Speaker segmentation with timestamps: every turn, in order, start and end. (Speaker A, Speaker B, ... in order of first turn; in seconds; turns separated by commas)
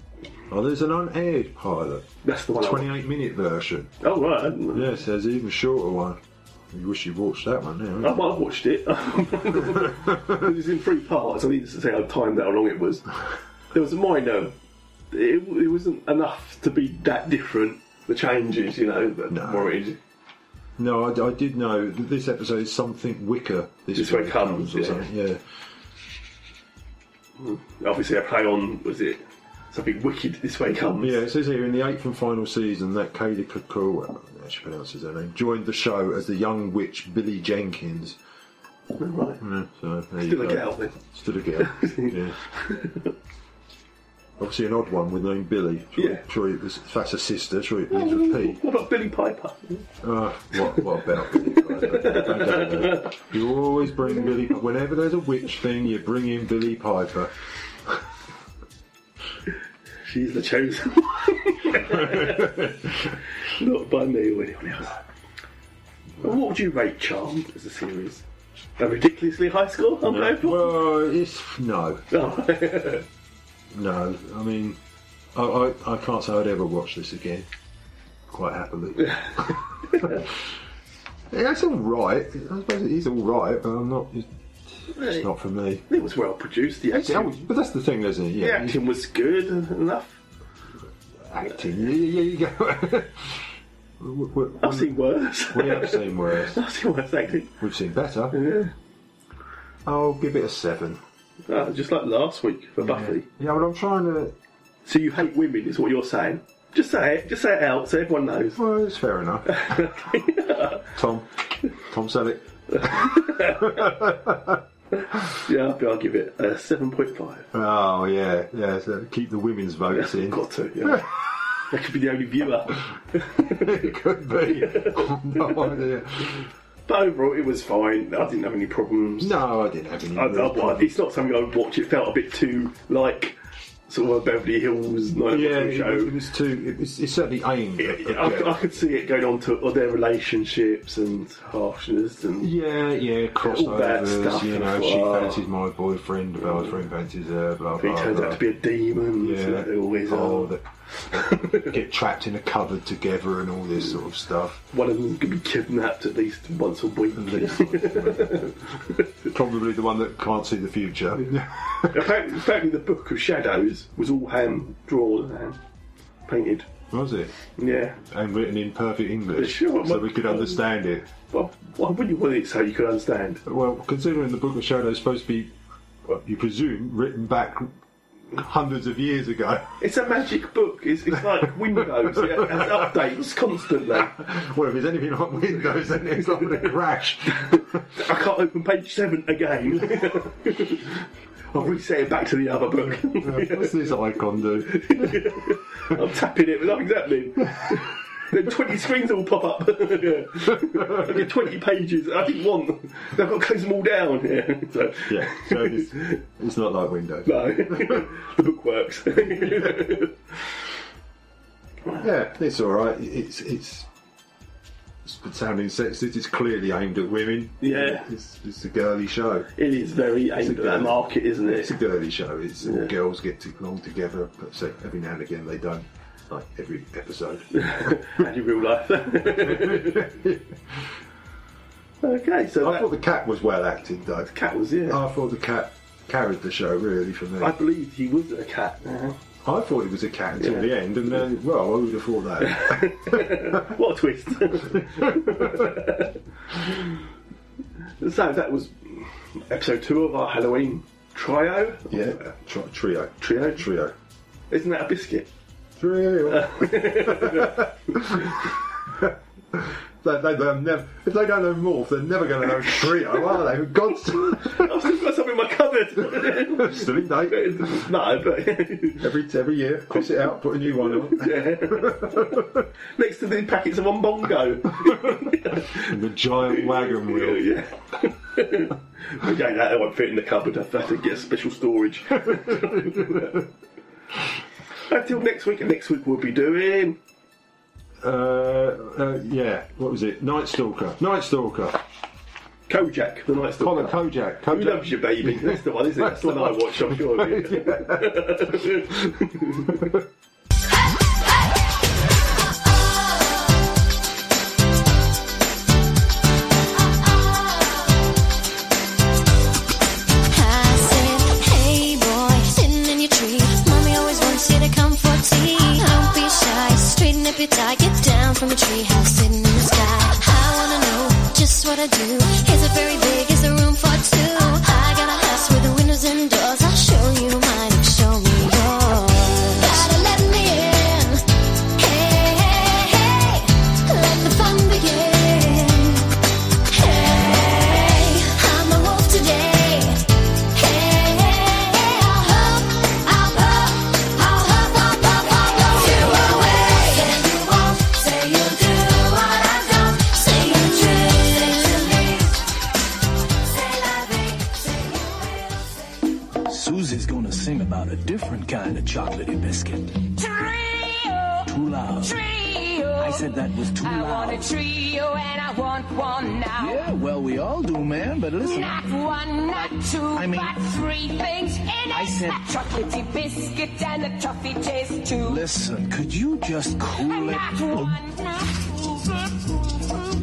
Speaker A: 0.5-3.9, Speaker B: 2.2-2.9, Speaker B: 4.0-5.0, Speaker A: 4.7-6.2, Speaker A: 6.7-8.2, Speaker B: 8.0-13.1, Speaker A: 9.8-10.2, Speaker B: 13.7-14.5, Speaker B: 15.1-20.0, Speaker A: 19.3-19.7, Speaker A: 20.8-25.4, Speaker B: 23.9-25.1, Speaker B: 27.4-31.2, Speaker A: 31.0-38.2, Speaker B: 39.0-39.4, Speaker A: 39.4-42.4, Speaker B: 40.2-41.0, Speaker B: 41.6-43.1, Speaker A: 44.4-48.6, Speaker B: 46.0-46.2, Speaker B: 47.9-49.9, Speaker A: 50.0-57.3, Speaker B: 51.2-53.2, Speaker B: 60.0-62.7, Speaker A: 62.0-62.5, Speaker B: 63.4-65.0, Speaker B: 66.2-68.2, Speaker B: 68.8-70.8, Speaker A: 70.0-72.0, Speaker B: 72.1-73.0, Speaker A: 73.7-74.8, Speaker A: 75.3-77.5, Speaker A: 78.3-80.3, Speaker B: 79.9-80.2, Speaker A: 81.3-85.8, Speaker B: 84.9-85.2, Speaker B: 85.9-87.5, Speaker A: 86.9-88.8, Speaker B: 88.4-90.2, Speaker A: 91.3-94.9, Speaker B: 94.6-97.6, Speaker A: 95.5-96.6, Speaker A: 97.6-98.4, Speaker B: 98.3-98.7, Speaker A: 99.8-101.0, Speaker B: 101.5-103.3, Speaker A: 102.8-104.3, Speaker B: 104.8-108.6, Speaker A: 108.5-109.8, Speaker B: 109.5-110.8, Speaker A: 110.9-114.6, Speaker B: 112.7-114.1, Speaker B: 114.9-117.5, Speaker A: 117.5-121.1, Speaker B: 119.9-121.0, Speaker B: 121.7-125.8, Speaker A: 123.4-126.5, Speaker B: 126.9-129.3, Speaker A: 129.2-130.9, Speaker B: 130.1-133.3, Speaker B: 133.9-136.1, Speaker A: 135.3-138.7, Speaker B: 137.8-142.5, Speaker A: 142.4-148.4, Speaker B: 143.4-145.5, Speaker B: 147.8-150.6, Speaker A: 149.2-154.6, Speaker B: 151.1-151.7, Speaker B: 154.7-159.1, Speaker A: 157.1-158.6, Speaker A: 159.3-162.1, Speaker B: 161.8-165.6, Speaker B: 166.3-166.7, Speaker A: 166.9-167.3, Speaker B: 167.6-168.0, Speaker A: 168.0-171.1, Speaker B: 169.3-170.6, Speaker B: 171.3-173.4, Speaker A: 173.4-175.5, Speaker A: 176.1-177.7, Speaker A: 178.3-179.8, Speaker B: 179.8-184.1, Speaker A: 182.0-182.9, Speaker A: 183.9-187.8, Speaker B: 186.3-186.7, Speaker B: 187.3-193.9, Speaker A: 192.9-195.3, Speaker B: 194.7-206.2, Speaker A: 205.1-208.1, Speaker B: 207.2-210.2, Speaker A: 212.0-213.9, Speaker A: 215.0-219.5, Speaker B: 217.6-218.1, Speaker B: 219.6-221.8, Speaker A: 220.4-228.0, Speaker B: 222.6-222.9, Speaker B: 227.6-230.1, Speaker A: 229.2-230.9, Speaker B: 232.0-232.9, Speaker A: 232.6-234.3, Speaker B: 234.3-235.0, Speaker A: 234.9-237.6, Speaker B: 237.4-239.2, Speaker A: 239.4-243.7, Speaker B: 240.4-240.7, Speaker B: 242.4-246.2, Speaker A: 244.6-245.8, Speaker B: 248.0-252.2, Speaker A: 251.9-253.9, Speaker B: 253.2-253.6, Speaker B: 254.5-255.3, Speaker A: 255.8-264.7, Speaker B: 256.3-258.2, Speaker B: 263.9-269.0, Speaker A: 266.1-267.9, Speaker A: 269.0-272.6, Speaker B: 270.6-275.9, Speaker A: 274.8-275.1, Speaker A: 275.6-277.5, Speaker B: 276.5-283.4, Speaker A: 282.3-283.3, Speaker B: 284.9-287.0, Speaker A: 288.0-291.8, Speaker B: 292.7-299.9, Speaker A: 293.6-298.5, Speaker C: 310.3-331.2, Speaker C: 331.8-336.1, Speaker C: 336.7-340.0, Speaker C: 340.5-352.3, Speaker C: 353.6-355.3, Speaker D: 356.4-360.0, Speaker E: 360.1-366.8, Speaker D: 361.4-362.1, Speaker D: 363.0-364.5, Speaker D: 366.6-368.8, Speaker E: 368.4-375.4, Speaker D: 370.1-370.6, Speaker D: 371.9-372.4, Speaker D: 375.2-378.0, Speaker E: 376.9-378.8